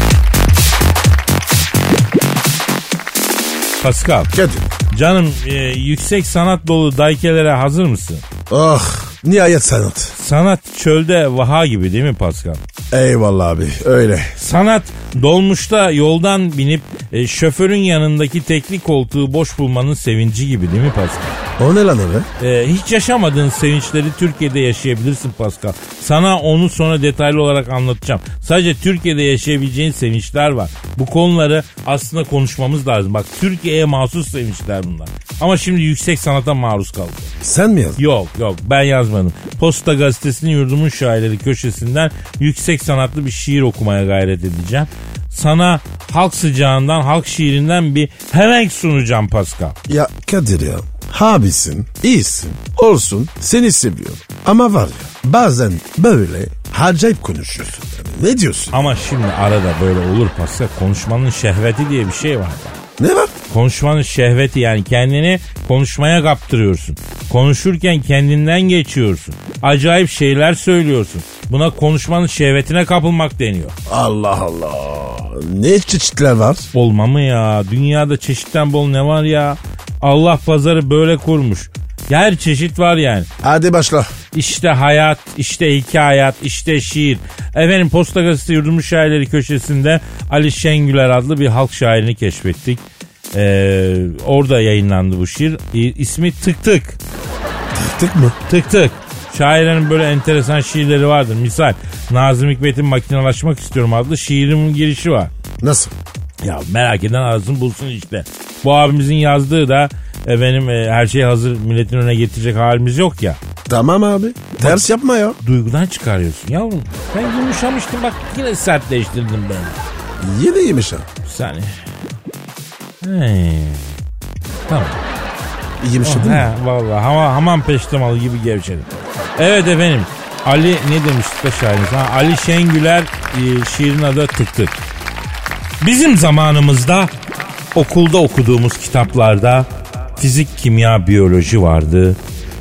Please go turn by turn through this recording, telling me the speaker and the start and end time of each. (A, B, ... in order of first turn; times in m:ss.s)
0:03.8-0:04.3 A
0:04.3-0:04.6 B
0:04.9-0:08.2 A
0:08.5-0:10.1 B
0:10.2-0:12.6 A
0:12.9-0:14.3 B
0:14.4-0:21.4 A
0:21.6-0:22.3 B
0:22.4-0:37.3 A
0:37.4-0:38.0 B
0:38.0-0:49.8 A
0:49.9-0:58.8 B
0:58.7-1:02.8 A
1:03.0-1:03.3 B
1:03.5-1:13.7 A
1:13.9-1:16.7 B
1:16.7-1:23.3 A
1:23.4-1:24.1 B
1:24.3-1:32.8 A
1:33.3-1:37.0 A
1:37.7-1:38.4 B
1:38.5-1:45.3 A
1:45.6-1:45.9 B
1:46.4-1:53.4 A
1:53.7-1:55.4 B
1:55.4-1:59.8 A
2:00.2-2:01.1 B
2:01.2-2:01.8 A
2:03.0-2:03.9 A
2:04.7-2:05.0 A
2:05.8-2:06.5 B
2:06.0-2:14.8 A
2:15.8-2:17.1 A
2:17.7-2:22.2 A